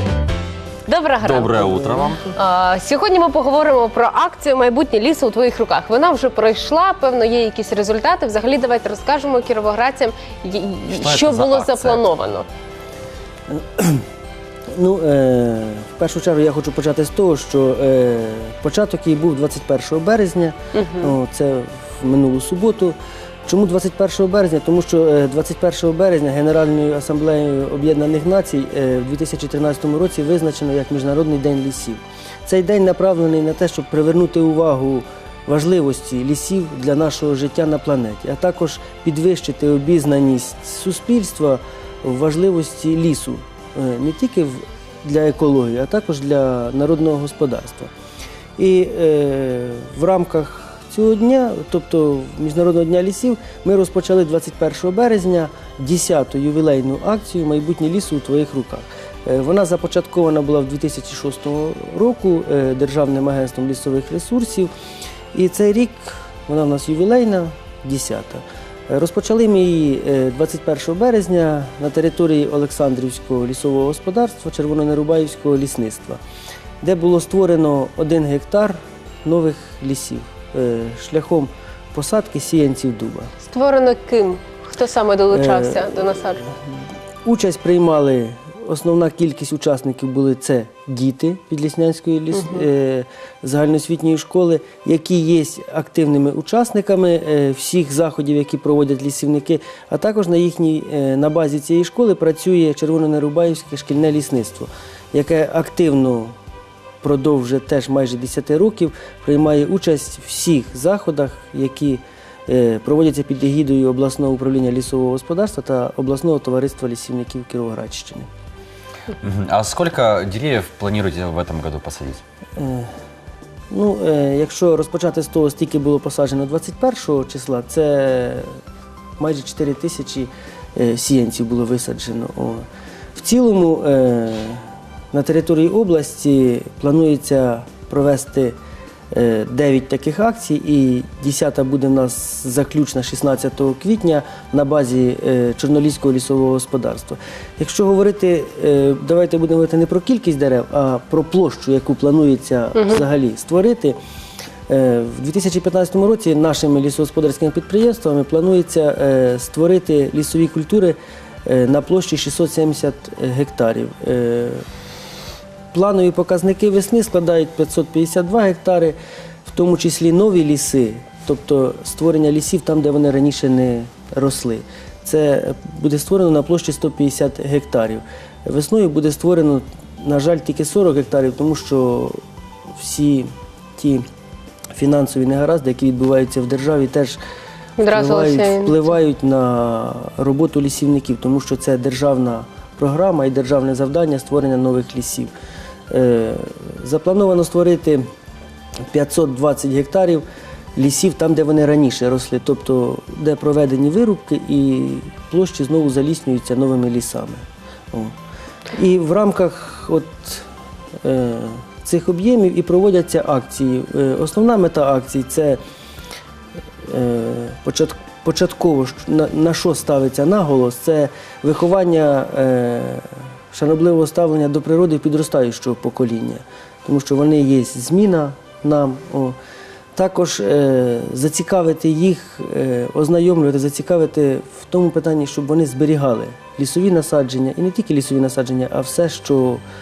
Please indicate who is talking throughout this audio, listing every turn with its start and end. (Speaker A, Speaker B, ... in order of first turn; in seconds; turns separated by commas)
Speaker A: 0.9-12.5, Speaker B: 1.2-2.3, Speaker B: 10.9-12.1, Speaker C: 13.5-14.0, Speaker C: 14.7-47.9, Speaker A: 20.8-21.1, Speaker C: 48.6-64.7, Speaker C: 65.3-76.2, Speaker C: 76.8-83.3, Speaker A: 83.5-86.5, Speaker C: 85.3-86.2, Speaker C: 87.2-106.3, Speaker C: 107.0-118.3, Speaker B: 119.2-122.2, Speaker C: 122.6-122.9, Speaker C: 123.7-128.6, Speaker C: 129.2-138.6, Speaker C: 139.1-154.0, Speaker C: 154.7-164.6, Speaker C: 165.7-182.2, Speaker C: 182.8-184.1, Speaker C: 184.8-187.2, Speaker A: 187.8-188.8, Speaker C: 187.8-195.3, Speaker C: 195.9-198.0, Speaker C: 198.9-200.2, Speaker C: 200.8-208.1, Speaker C: 208.7-210.5, Speaker C: 211.0-215.6, Speaker C: 216.9-229.4, Speaker C: 229.9-239.6